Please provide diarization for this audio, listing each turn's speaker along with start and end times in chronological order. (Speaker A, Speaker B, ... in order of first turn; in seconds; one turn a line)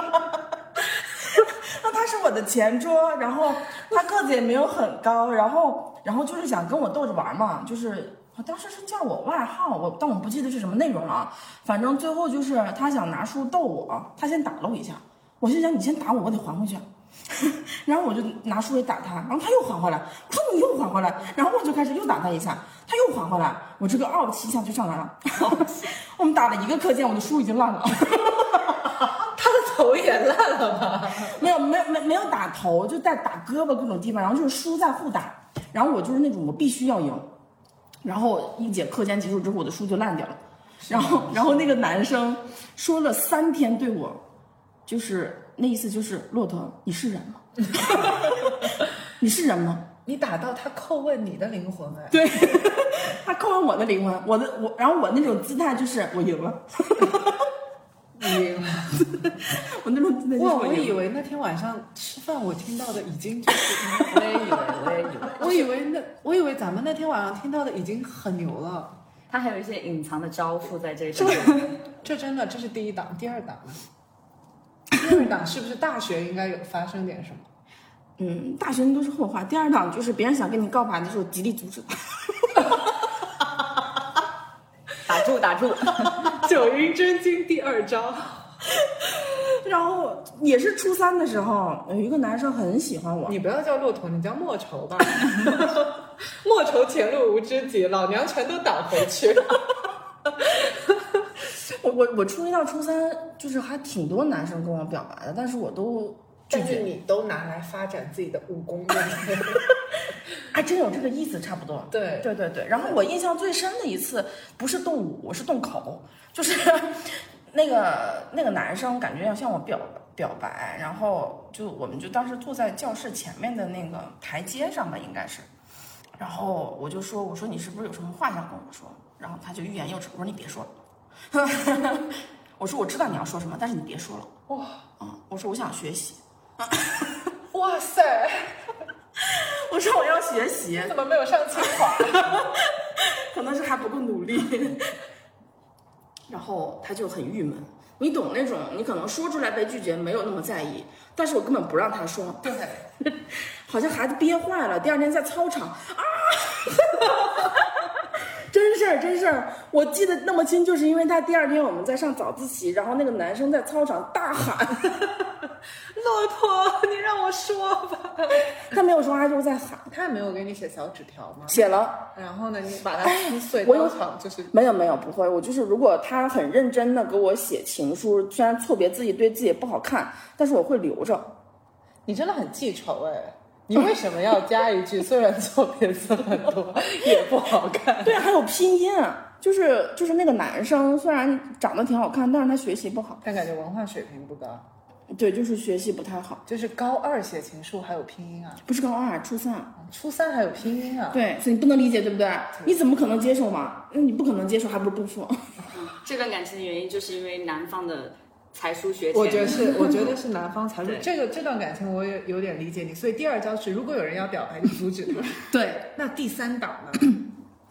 Speaker A: 1.4-28.9
Speaker B: 29.1-31.4
Speaker A: 31.3-37.3
Speaker A: 38.0-44.2
Speaker B: 40.8-41.8
Speaker A: 44.9-48.7
Speaker B: 47.6-48.1
Speaker A: 49.2-49.9
Speaker B: 50.0-52.3
Speaker A: 52.1-57.5
Speaker B: 58.2-59.4
Speaker A: 59.5-61.0
Speaker B: 60.4-64.6
Speaker C: 64.1-65.6
Speaker B: 65.3-69.0
Speaker C: 69.3-71.8
Speaker B: 71.9-73.8
Speaker B: 74.9-77.5
Speaker A: 78.2-82.8
Speaker C: 85.0-86.3
Speaker B: 86.2-88.6
Speaker A: 89.0-93.4
Speaker B: 93.2-95.9
Speaker B: 96.4-99.6
Speaker A: 101.5-106.8
Speaker B: 106.5-109.7
Speaker A: 110.5-125.5
Speaker B: 111.9-113.0
Speaker A: 126.2-130.7
Speaker A: 131.3-134.3
Speaker B: 134.5-134.8
Speaker A: 135.0-137.3
Speaker B: 137.5-138.6
Speaker A: 139.2-140.9
Speaker B: 140.8-142.5
Speaker A: 141.8-144.9
Speaker A: 146.3-152.5
Speaker B: 152.4-152.9
Speaker A: 153.0-164.9
Speaker B: 165.9-168.6
Speaker A: 168.6-169.9
Speaker B: 169.9-174.5
Speaker A: 171.5-172.1
Speaker A: 173.0-174.0
Speaker A: 174.5-181.3
Speaker B: 182.1-188.2
Speaker A: 188.0-193.2
Speaker B: 193.2-194.7
Speaker A: 195.1-196.4
Speaker B: 196.4-198.6
Speaker A: 198.7-199.7
Speaker B: 199.8-201.2
Speaker A: 201.1-205.6
Speaker C: 205.7-210.1
Speaker B: 209.1-217.2
Speaker A: 215.5-215.9